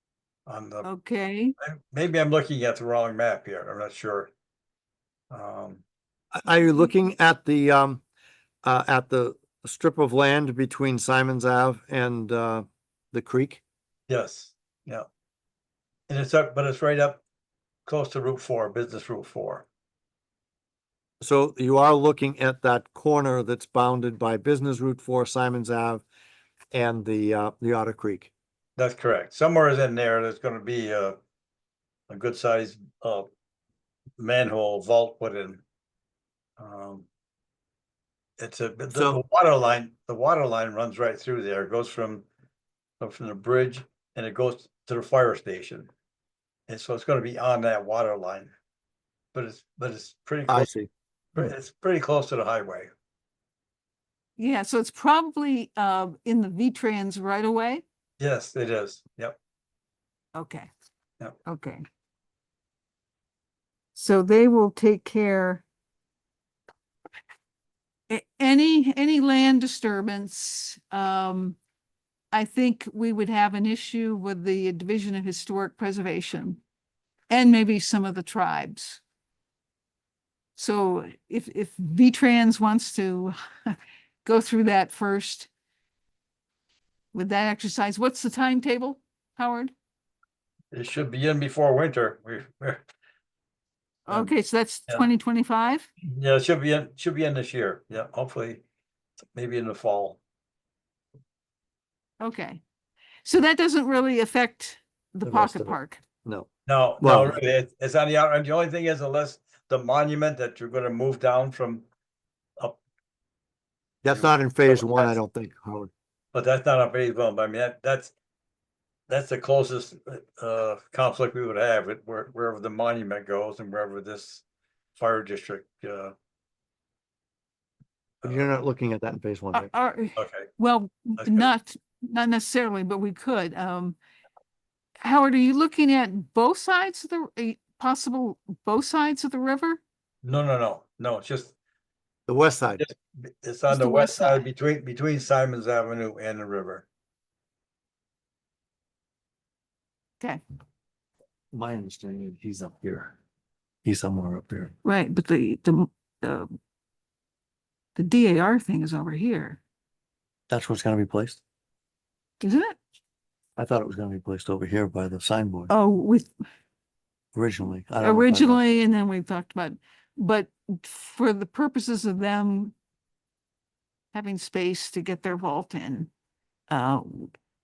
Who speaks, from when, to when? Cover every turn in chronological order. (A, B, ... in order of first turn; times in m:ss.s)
0:00.5-0:00.9 A
0:00.8-0:01.5 B
0:01.6-0:04.3 A
0:05.3-0:05.8 A
0:06.3-0:08.0 C
0:08.6-0:13.6 C
0:14.1-0:15.1 A
0:16.1-0:17.2 A
0:17.9-0:19.7 A
0:21.2-0:26.0 C
0:26.7-0:28.3 C
0:28.8-0:31.2 A
0:32.1-0:33.3 A
0:34.2-0:35.6 A
0:36.6-0:37.1 A
0:38.4-0:42.2 A
0:43.0-0:45.9 A
0:46.7-0:48.5 A
0:49.3-0:50.7 A
0:50.5-0:50.9 C
0:51.4-0:52.9 A
0:54.4-0:57.8 B
0:58.2-0:59.4 A
1:00.4-1:00.7 B
1:01.5-1:01.8 B
1:04.0-1:05.6 B
1:08.1-1:11.6 B
1:12.3-1:16.6 B
1:17.3-1:19.0 B
1:20.6-1:25.5 B
1:27.1-1:29.7 B
1:30.7-1:32.8 A
1:34.1-1:35.9 B
1:36.0-1:38.6 A
1:39.3-1:40.2 A
1:42.2-1:42.6 B
1:43.2-1:46.0 B
1:45.3-1:46.5 C
1:46.7-1:51.9 A
1:47.0-1:47.4 C
1:54.0-1:55.9 C
1:54.1-1:55.2 A
1:56.3-1:58.1 A
1:59.1-2:04.4 A
2:05.0-2:06.1 A
2:08.2-2:08.5 A
2:08.2-2:09.7 C
2:09.5-2:14.0 B
2:10.2-2:10.5 A
2:11.2-2:11.5 A
2:15.0-2:19.8 B
2:20.2-2:21.5 A
2:22.3-2:22.8 C
2:22.8-2:26.8 A
2:23.7-2:24.4 B
2:31.5-2:33.2 C
2:33.8-2:34.7 C
2:34.8-2:36.5 B
2:38.0-2:39.6 B
2:40.5-2:41.4 C
2:42.4-2:42.8 B
2:43.6-2:45.7 C
2:45.7-2:46.3 B
2:47.3-2:48.6 C
2:48.0-2:52.7 B
2:54.1-2:56.1 B
2:56.7-2:57.4 B